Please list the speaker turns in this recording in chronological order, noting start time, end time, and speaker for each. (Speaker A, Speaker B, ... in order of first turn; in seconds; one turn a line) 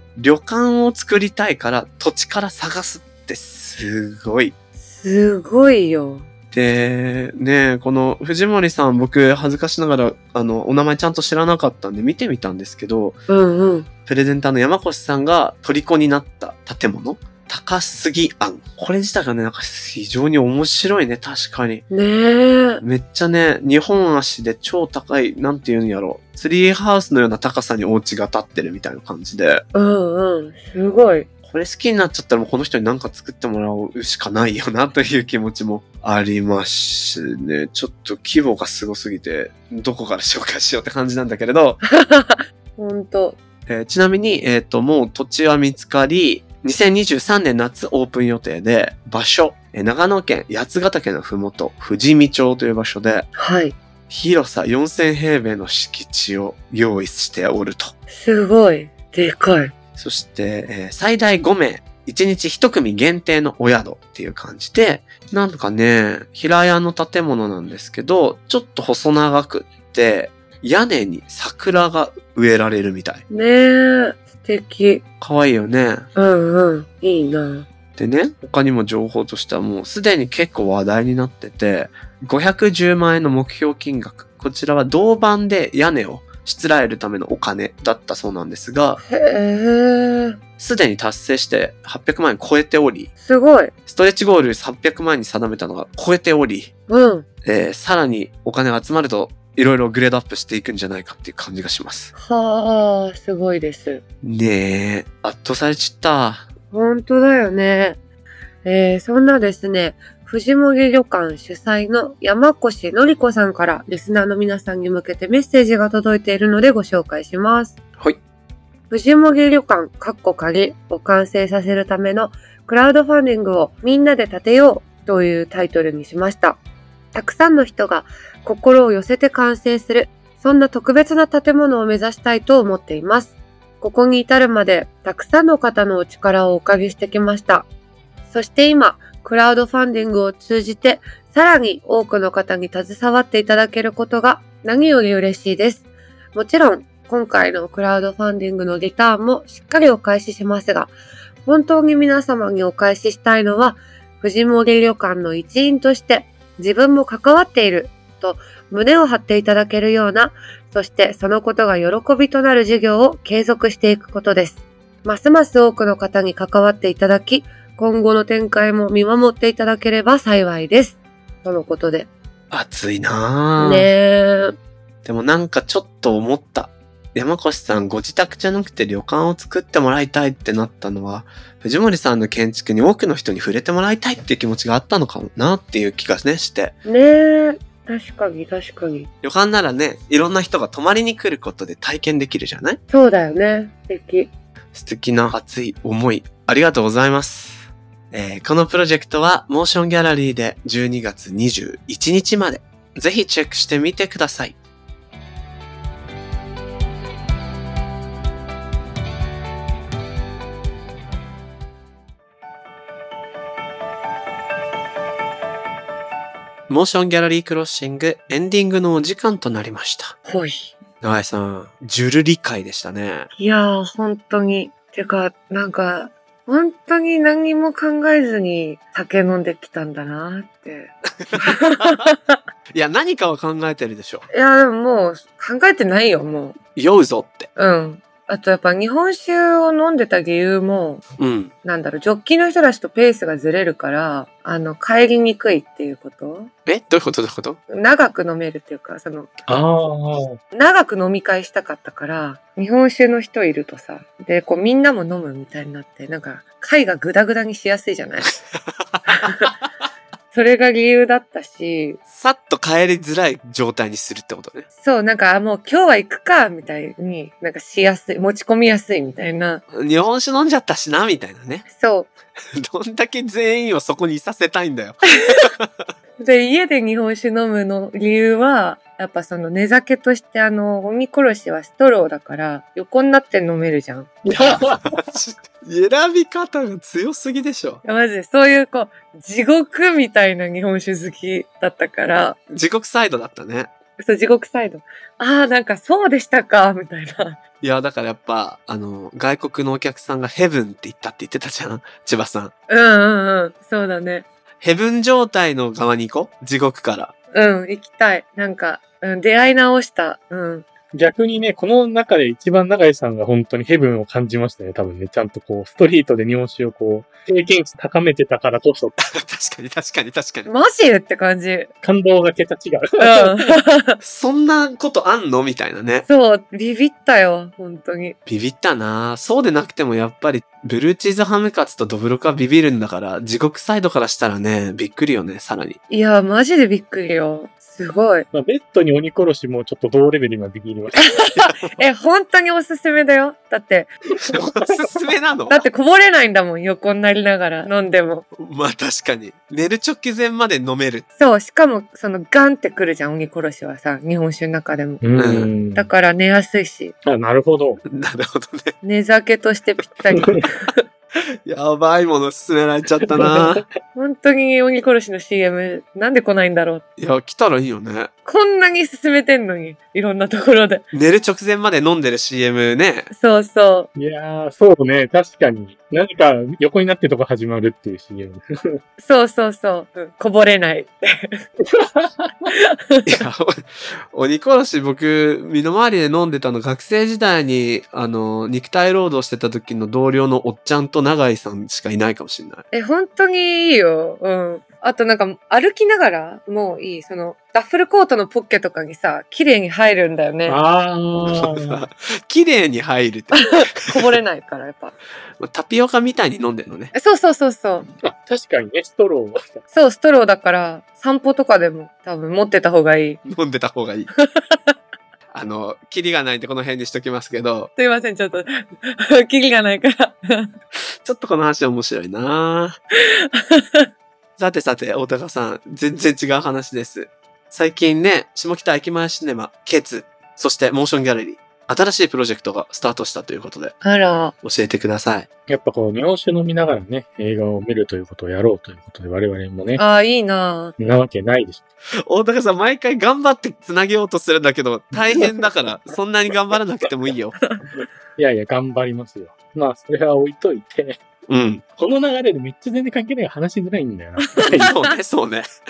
Speaker A: 0.2-4.5
Speaker B: 4.8-6.3
Speaker A: 6.5-13.2
Speaker B: 13.3-13.9
Speaker A: 14.1-21.9
Speaker B: 21.9-22.8
Speaker A: 22.8-29.6
Speaker B: 29.7-31.3
Speaker A: 31.5-41.8
Speaker B: 41.9-43.4
Speaker A: 43.7-53.3
Speaker B: 53.4-53.8
Speaker A: 54.1-57.9
Speaker B: 58.1-59.7
Speaker A: 60.0-73.2
Speaker B: 73.3-75.0
Speaker A: 75.2-76.1
Speaker B: 76.2-77.7
Speaker A: 78.0-89.0
Speaker B: 89.0-90.4
Speaker A: 90.6-93.1
Speaker B: 93.2-93.7
Speaker A: 93.9-96.7
Speaker B: 96.9-97.3
Speaker A: 97.4-102.1
Speaker B: 102.2-104.0
Speaker A: 104.2-106.5
Speaker B: 106.7-108.0
Speaker B: 108.6-117.8
Speaker B: 118.9-126.6
Speaker B: 127.1-137.7
Speaker B: 138.3-150.9
Speaker B: 151.5-172.1
Speaker A: 172.5-173.9
Speaker B: 173.6-174.6
Speaker A: 175.0-186.8
Speaker B: 186.9-189.1
Speaker A: 189.2-192.8
Speaker B: 192.9-194.3
Speaker A: 194.7-204.6
Speaker A: 216.7-220.2
Speaker B: 220.3-220.7
Speaker A: 221.0-223.3
Speaker B: 223.4-232.4
Speaker A: 231.2-232.1
Speaker A: 232.7-234.3
Speaker B: 234.3-236.6
Speaker A: 236.8-237.5
Speaker B: 237.6-241.0
Speaker A: 241.2-241.5
Speaker B: 241.6-246.5
Speaker A: 246.7-247.6
Speaker B: 247.7-249.4
Speaker C: 249.5-250.4
Speaker B: 250.5-258.4
Speaker A: 258.8-259.5
Speaker B: 259.1-259.5
Speaker B: 260.3-262.0
Speaker A: 262.1-264.7
Speaker B: 264.8-269.6
Speaker A: 269.7-271.7
Speaker B: 271.7-272.1
Speaker A: 272.5-275.9
Speaker B: 276.2-284.1
Speaker C: 284.3-285.0
Speaker A: 284.9-287.8
Speaker B: 287.9-292.4
Speaker A: 292.5-293.7
Speaker B: 294.0-297.4
Speaker A: 297.6-302.5
Speaker B: 302.7-304.3
Speaker A: 304.6-307.1
Speaker B: 307.3-310.7
Speaker C: 310.9-319.0
Speaker A: 319.0-320.5
Speaker B: 320.5-321.7
Speaker C: 321.8-323.6
Speaker B: 323.0-324.0
Speaker A: 324.0-326.1
Speaker B: 326.1-328.2
Speaker A: 328.3-335.8
Speaker B: 335.9-338.3
Speaker C: 338.3-341.5
Speaker B: 341.1-343.9
Speaker C: 344.2-344.8
Speaker A: 344.3-345.6
Speaker B: 345.5-348.3
Speaker A: 348.4-351.1
Speaker B: 351.2-355.0
Speaker C: 355.0-355.9
Speaker A: 355.2-355.5
Speaker B: 355.7-356.9
Speaker C: 357.1-357.8
Speaker A: 357.9-358.7
Speaker B: 358.8-360.8
Speaker A: 361.5-363.6
Speaker C: 363.1-363.6
Speaker B: 363.9-366.8
Speaker A: 367.0-368.1
Speaker B: 368.3-370.9
Speaker A: 370.9-373.1
Speaker B: 373.1-373.9
Speaker C: 374.0-378.8
Speaker B: 379.0-381.4
Speaker C: 381.6-382.5
Speaker B: 382.5-383.1
Speaker A: 383.1-392.6
Speaker B: 392.7-400.6
Speaker C: 400.5-401.8
Speaker A: 401.3-404.2
Speaker B: 403.4-404.9
Speaker A: 405.4-406.9
Speaker B: 406.9-407.9
Speaker C: 408.0-409.6
Speaker B: 409.7-413.2
Speaker A: 413.2-414.1
Speaker B: 414.2-414.8
Speaker A: 415.3-417.7
Speaker B: 417.8-420.5
Speaker A: 421.0-422.8
Speaker B: 423.1-423.9
Speaker A: 424.4-433.8
Speaker B: 433.8-434.3
Speaker A: 434.4-435.3
Speaker C: 435.5-439.8
Speaker B: 439.8-440.7
Speaker C: 440.8-441.7
Speaker A: 442.0-447.4
Speaker C: 448.2-451.0
Speaker A: 451.3-451.6
Speaker C: 451.8-454.7
Speaker B: 454.4-454.7
Speaker A: 454.5-455.5